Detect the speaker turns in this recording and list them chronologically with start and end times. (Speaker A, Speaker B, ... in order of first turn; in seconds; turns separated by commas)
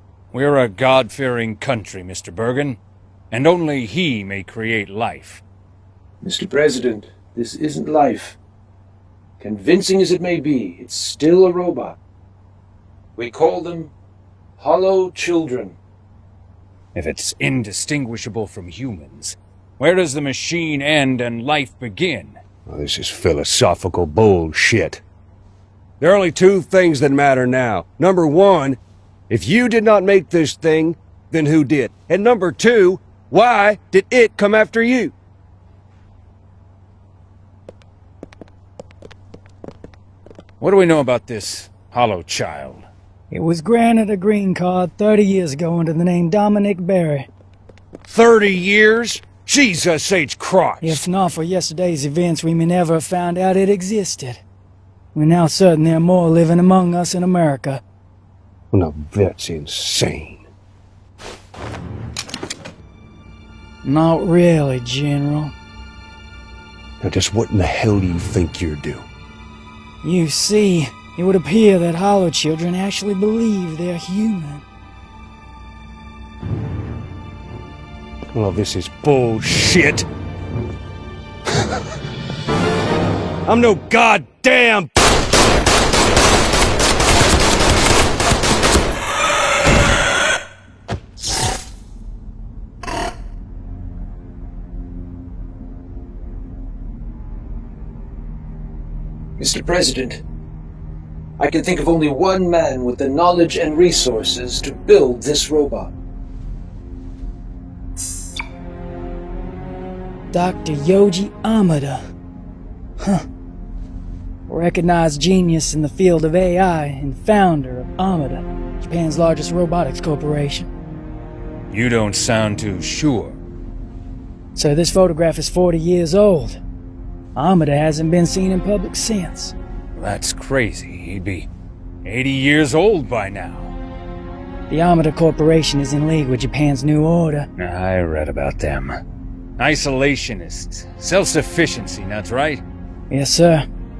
Speaker A: 0.3-2.8, Speaker A: 3.3-5.4, Speaker B: 6.2-8.4, Speaker B: 9.4-12.0, Speaker B: 13.2-13.9, Speaker B: 14.6-15.8, Speaker A: 16.9-22.4, Speaker C: 22.7-25.0, Speaker C: 26.0-28.8, Speaker C: 29.3-35.1, Speaker A: 40.6-42.9, Speaker D: 43.3-47.3, Speaker C: 48.1-50.8, Speaker D: 50.8-54.4, Speaker D: 55.1-57.8, Speaker C: 58.7-60.5, Speaker D: 63.8-65.5, Speaker C: 67.0-69.0, Speaker D: 70.0-74.6, Speaker C: 78.3-80.0, Speaker C: 83.5-84.9, Speaker B: 99.4-100.2, Speaker B: 101.4-105.9, Speaker D: 110.3-112.0, Speaker D: 114.5-120.7, Speaker A: 121.7-123.4, Speaker D: 124.5-126.6, Speaker D: 127.3-129.5, Speaker A: 129.9-131.5, Speaker A: 132.0-133.8, Speaker D: 134.7-137.5, Speaker A: 137.6-139.0, Speaker A: 139.6-142.6, Speaker D: 143.1-143.6